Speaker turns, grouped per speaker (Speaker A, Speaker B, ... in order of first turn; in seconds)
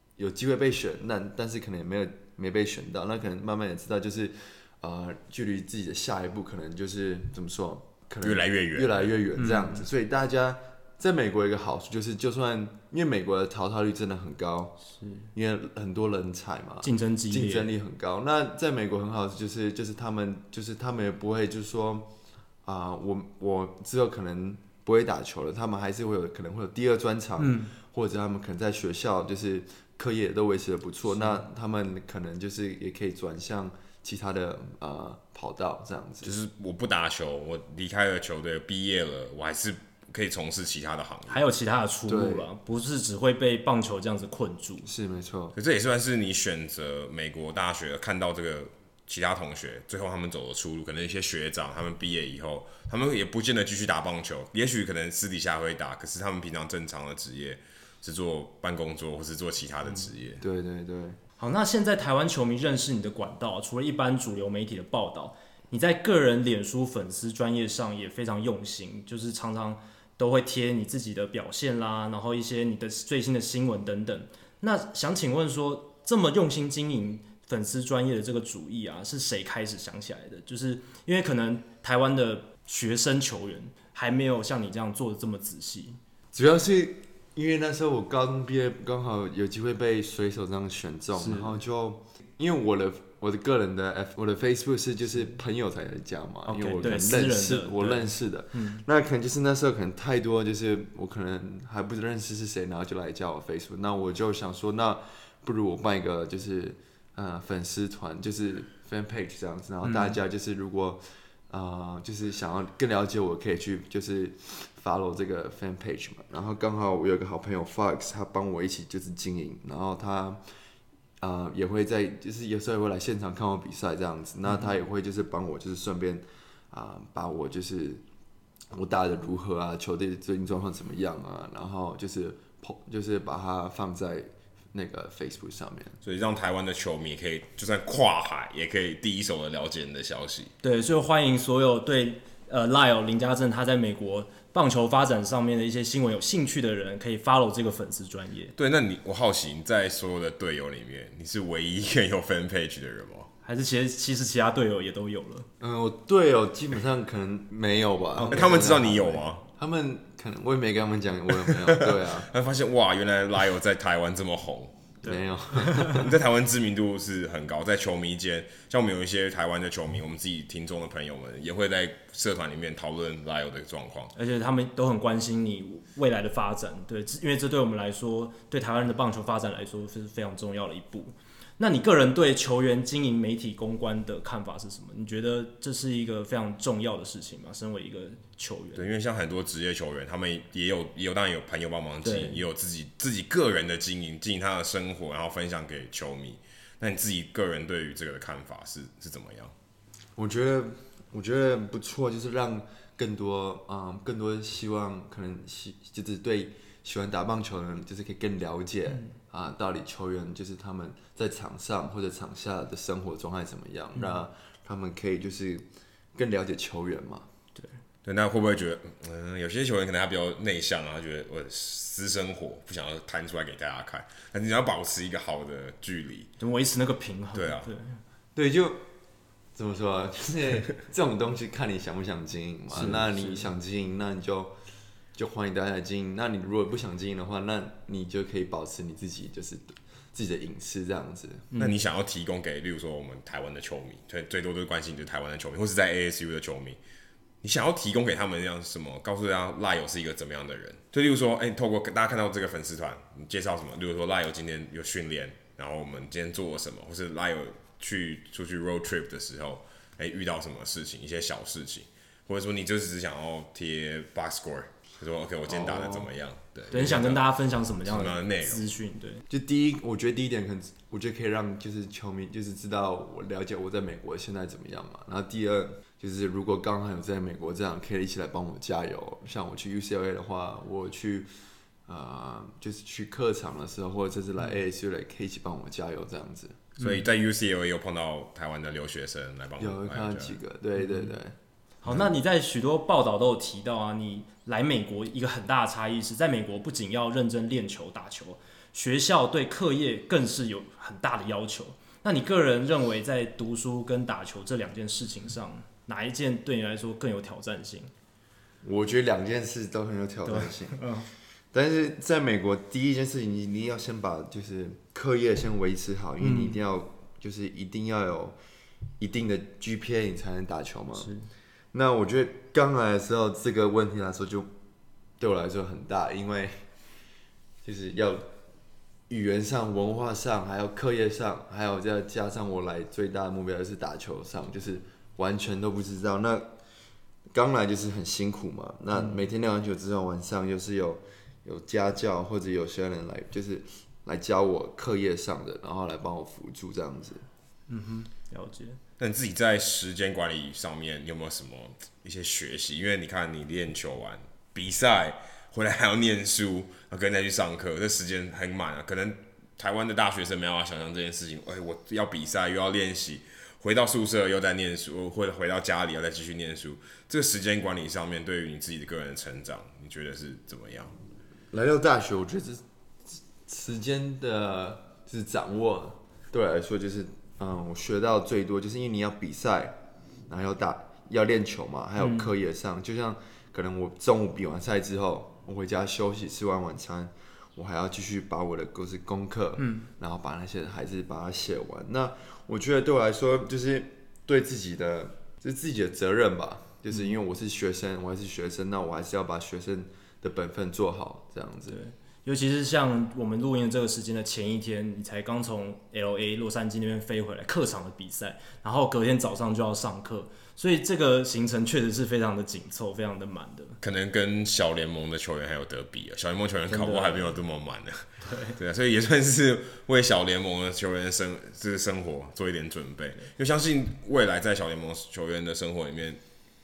Speaker A: 0.2-14.8, 15.3-22.1, 22.6-36.4, 42.1-42.5, 44.8-45.6, 60.4-61.2, 86.3-120.4, 121.2-128.0, 128.7-136.0, 155.6-162.3, 165.0-166.0, 200.2-217.3, 228.4-228.8, 229.6-234.5, 235.2-241.5, 265.5-266.2, 269.3-281.3, 281.9-286.7, 289.6-291.4, 308.6-310.9, 311.5-318.4, 319.0-321.1, 321.7-324.5, 325.2-326.6, 327.6-328.3, 329.1-336.5, 337.3-347.3, 371.5-372.6, 373.4-379.8, 380.3-401.8
Speaker B: 8.2-9.1, 36.2-41.4, 45.5-60.4, 136.0-140.5, 148.6-153.3, 158.3-159.4, 161.5-164.8, 165.9-174.1, 188.8-199.5, 218.1-226.3, 227.3-227.7, 241.6-246.8, 247.4-267.2, 267.9-268.6, 286.8-290.4, 291.9-292.1, 349.0-370.9, 413.8-426.2
Speaker C: 9.3-9.9, 15.0-15.3, 16.8-17.7, 27.4-27.7, 31.1-31.4, 41.3-44.9, 61.4-86.0, 91.2-91.6, 96.5-98.8, 109.8-110.2, 124.5-124.8, 140.6-148.6, 153.4-155.5, 158.2-158.6, 165.0-166.1, 174.2-188.9, 192.0-192.4, 213.9-214.2, 226.4-228.0, 232.7-233.5, 266.7-269.2, 286.8-287.0, 290.8-291.1, 291.8-307.9, 310.2-311.1, 316.2-316.6, 321.0-321.3, 338.9-339.2, 347.7-348.8, 382.0-382.3, 389.6-389.9, 396.9-397.1, 401.7-413.8, 416.7-417.4, 418.2-418.6